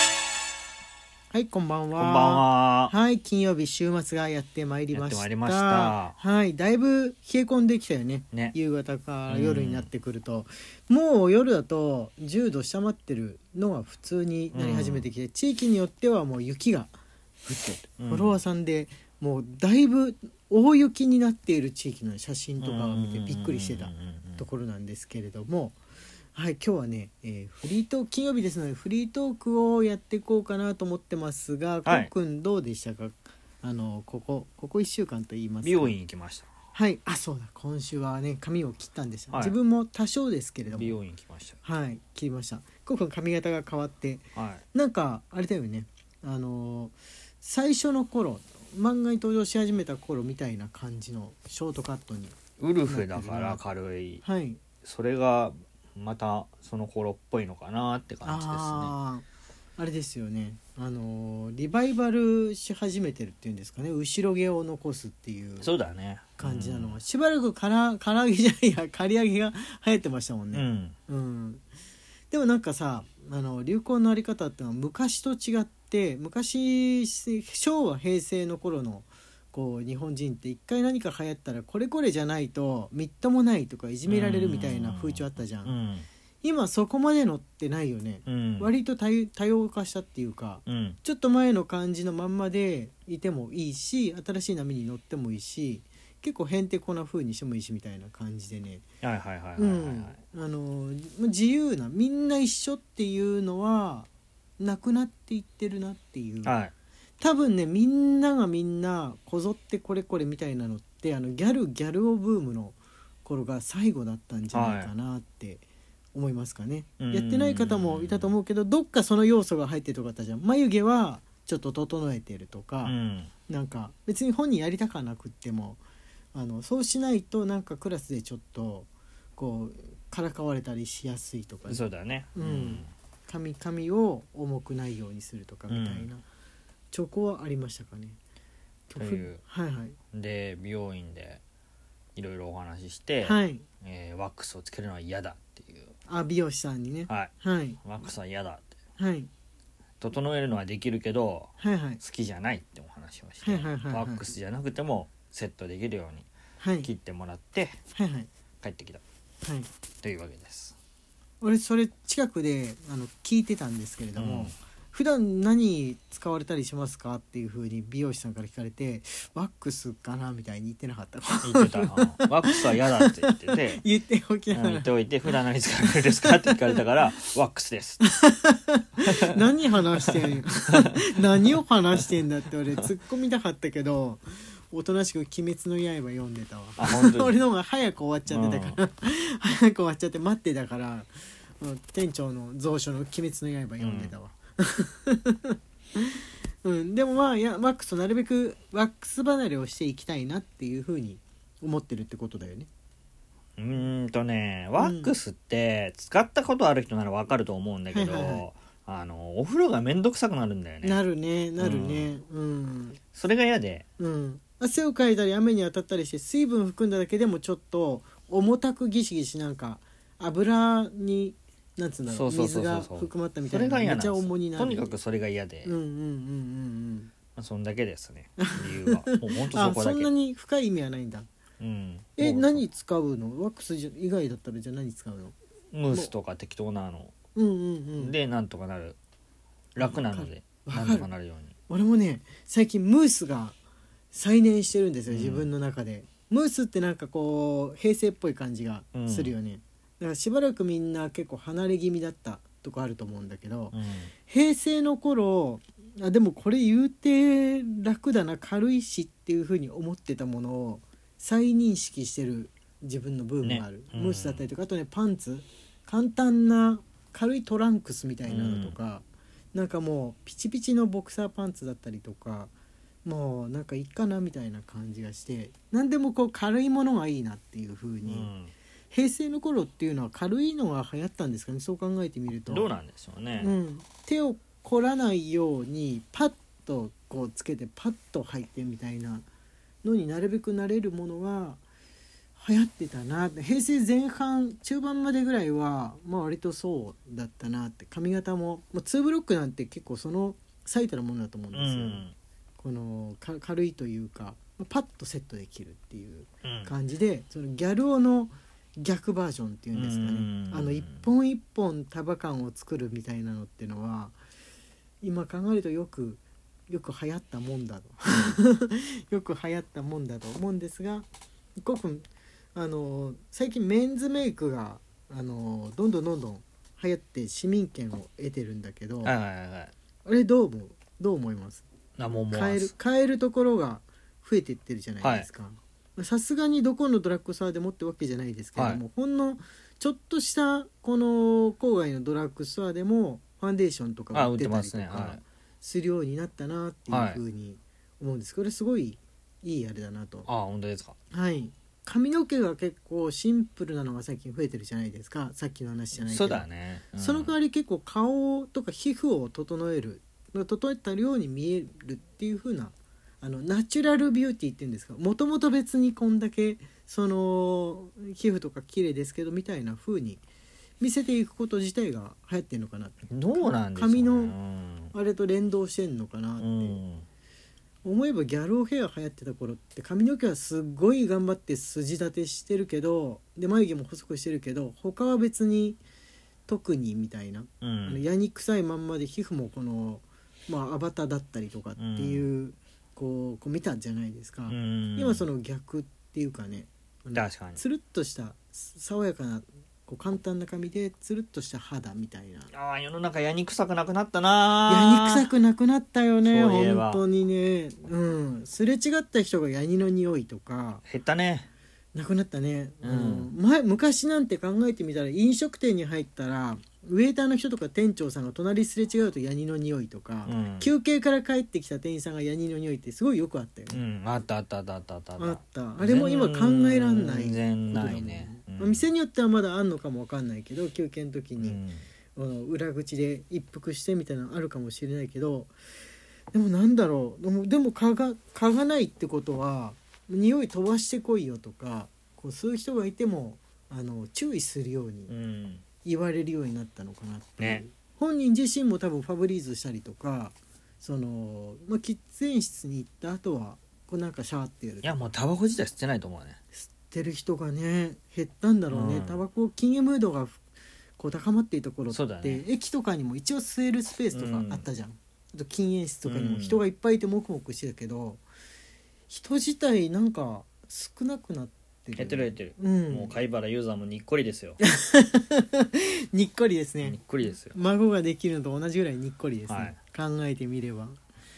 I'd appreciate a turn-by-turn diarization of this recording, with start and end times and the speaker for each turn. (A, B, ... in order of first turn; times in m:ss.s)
0:01.3-0:16.9 A
0:02.0-0:02.9 B
0:04.9-0:06.2 B
0:09.3-0:09.9 B
0:14.5-0:15.1 B
0:17.4-0:25.8 A
0:18.0-0:18.4 B
0:22.6-0:24.4 B
0:26.4-0:35.9 A
0:31.8-0:32.1 B
0:35.6-0:36.5 B
0:36.7-0:41.0 A
0:40.7-0:41.6 B
0:41.6-0:52.4 A
0:44.4-0:44.6 B
0:52.6-0:54.2 B
0:52.9-0:53.6 A
0:54.2-0:54.6 A
0:54.8-0:58.9 B
0:58.2-0:59.2 A
0:59.8-1:05.7 A
1:05.6-1:07.0 B
1:06.4-1:11.6 A
1:10.5-1:11.0 B
1:12.3-1:25.8 A
1:24.1-1:26.1 B
1:26.4-1:38.8 A
1:28.3-1:28.7 B
1:30.7-1:31.0 B
1:39.0-1:40.2 B
1:39.6-1:46.6 A
1:46.4-1:46.7 B
1:47.2-2:03.0 A
1:54.5-1:54.9 B
1:57.0-1:58.3 B
2:02.8-2:03.3 B
2:03.5-2:05.8 A
2:06.3-2:11.8 A
2:11.7-2:12.9 B
2:12.4-2:16.2 A
2:15.7-2:16.1 B
2:16.9-2:18.2 A
2:18.9-2:20.0 A
2:19.0-2:19.4 B
2:20.1-2:21.4 B
2:22.2-2:25.9 B
2:23.2-2:23.6 A
2:26.1-2:27.8 A
2:27.8-2:28.7 B
2:29.0-2:29.3 A
2:30.0-2:36.3 B
2:31.6-2:32.0 A
2:33.4-2:34.2 A
2:36.6-2:36.9 A
2:36.8-2:37.8 B
2:37.9-2:38.3 A
2:38.6-2:39.0 B
2:39.4-2:39.7 A
2:40.0-2:40.8 B
2:41.4-2:54.9 A
2:44.2-2:44.5 B
2:51.4-2:53.8 B
2:54.5-2:58.0 B
2:56.2-2:56.5 A
2:58.0-3:22.7 A
2:59.0-2:59.4 B
3:00.0-3:01.5 B
3:06.8-3:07.4 B
3:08.3-3:08.8 B
3:13.8-3:14.1 B
3:23.6-3:31.0 B
3:24.8-3:25.1 A
3:27.9-3:28.4 A
3:30.8-3:33.0 A
3:31.6-3:32.2 B
3:33.1-3:33.8 B
3:34.0-3:45.0 A
3:42.1-3:45.8 B
3:45.6-3:47.1 A
3:47.4-3:50.1 B
3:48.4-3:51.3 A
3:51.6-3:52.6 B
3:52.2-3:55.4 A
3:55.7-3:57.1 B
3:57.4-3:58.2 A
3:58.0-3:59.0 B
3:59.8-4:01.1 A
3:59.8-4:01.5 B
4:01.7-4:03.6 A
4:04.1-4:32.5 A
4:05.1-4:05.5 B
4:08.9-4:09.3 B
4:13.7-4:14.1 B
4:23.4-4:24.4 B
4:28.3-4:28.8 B
4:33.0-4:38.3 A
4:38.1-4:38.5 B
4:38.9-4:42.7 A
4:42.5-4:43.6 B
4:43.4-4:49.2 A
4:49.8-4:51.6 A
4:52.4-5:02.0 A
5:01.5-5:02.2 B
5:02.6-5:14.2 A
5:06.4-5:06.7 B
5:09.8-5:11.1 B
5:15.0-5:21.1 A
5:21.6-5:29.1 A
5:29.0-5:29.7 B
5:30.0-5:31.6 A
5:32.0-5:32.7 B
5:32.3-5:50.3 A
5:35.0-5:35.3 B
5:38.6-5:38.8 B
5:44.1-5:45.2 B
5:46.9-5:47.2 B
5:50.3-5:51.0 B
5:51.1-6:10.2 A
5:56.0-5:57.3 B
6:10.8-6:14.3 A
6:13.1-6:14.9 B
6:14.9-6:16.8 A
6:16.4-6:17.1 B
6:17.8-6:25.8 A
6:26.5-6:42.5 A
6:27.6-6:28.0 B
6:31.8-6:32.3 B
6:34.5-6:35.2 B
6:37.1-6:37.6 B
6:42.5-6:45.3 B
6:44.7-6:50.8 A
6:46.2-6:47.0 B
6:50.9-6:51.5 B
6:51.9-7:03.8 A
6:52.8-6:53.3 B
7:00.3-7:00.7 B
7:03.7-7:08.8 B
7:05.2-7:11.6 A
7:11.4-7:11.8 B
7:12.2-7:15.5 A
7:16.3-7:25.1 A
7:25.1-7:25.6 B
7:25.8-7:34.9 A
7:27.4-7:27.6 B
7:34.8-7:36.4 B
7:36.6-7:40.4 A
7:38.7-7:39.2 B
7:41.0-7:48.2 A
7:41.9-7:42.4 B
7:44.1-7:44.7 B
7:46.0-7:46.6 B
7:49.1-7:53.2 A
7:52.0-7:54.6 B
7:54.6-8:01.0 A
7:56.8-7:57.6 B
7:59.5-7:59.8 B